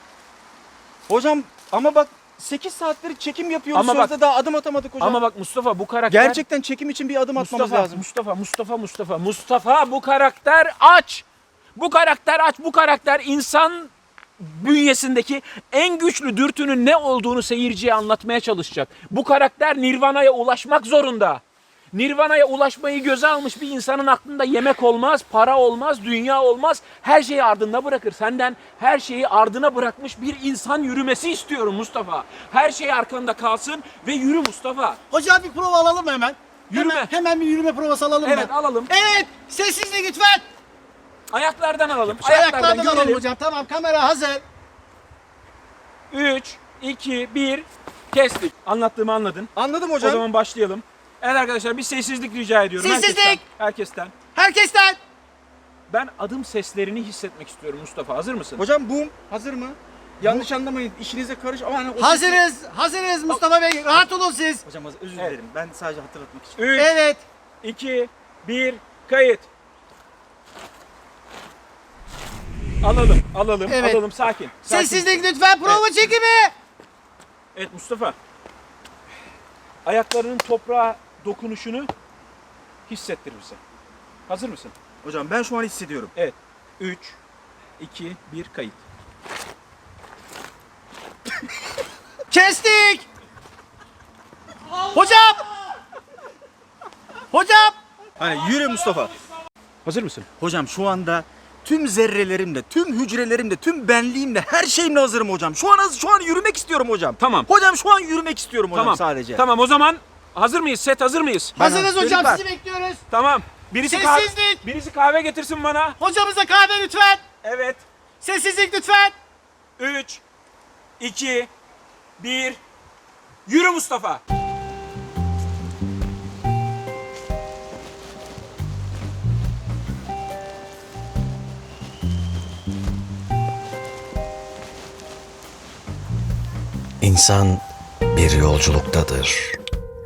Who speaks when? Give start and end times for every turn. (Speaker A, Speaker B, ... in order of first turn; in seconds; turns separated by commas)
Speaker A: 1.1-5.2, Speaker B: 3.7-4.1, Speaker B: 5.0-6.4, Speaker A: 6.1-8.0, Speaker B: 7.4-35.0, Speaker C: 35.1-40.4, Speaker B: 36.7-37.1, Speaker B: 38.2-38.9, Speaker B: 41.3-43.2, Speaker C: 42.1-44.4, Speaker B: 46.1-49.5, Speaker A: 49.5-50.2, Speaker B: 50.0-54.1, Speaker C: 52.8-53.4, Speaker C: 54.3-55.0, Speaker B: 55.9-58.6, Speaker A: 58.6-62.4, Speaker C: 62.0-64.6, Speaker A: 64.7-66.6, Speaker B: 66.5-66.9, Speaker C: 66.7-67.2, Speaker B: 67.6-69.5, Speaker B: 72.8-75.8, Speaker C: 73.7-74.0, Speaker C: 74.6-76.5, Speaker B: 77.5-78.2, Speaker B: 79.8-81.9, Speaker B: 82.9-83.6, Speaker B: 84.3-84.7, Speaker A: 85.0-86.1, Speaker B: 86.1-87.2, Speaker B: 87.8-88.8, Speaker C: 92.3-93.0, Speaker C: 94.9-95.5, Speaker C: 97.3-97.8, Speaker A: 98.2-99.1, Speaker B: 99.8-100.3, Speaker A: 100.4-109.4, Speaker B: 107.2-107.5, Speaker B: 108.7-111.6, Speaker C: 111.5-113.0, Speaker A: 111.6-112.4, Speaker B: 113.1-116.0, Speaker C: 113.9-114.6, Speaker C: 116.0-117.2, Speaker B: 117.4-117.8, Speaker C: 118.2-119.2, Speaker B: 119.8-120.2, Speaker B: 121.0-121.5, Speaker B: 122.2-122.6, Speaker B: 123.5-124.2, Speaker D: 137.0-139.6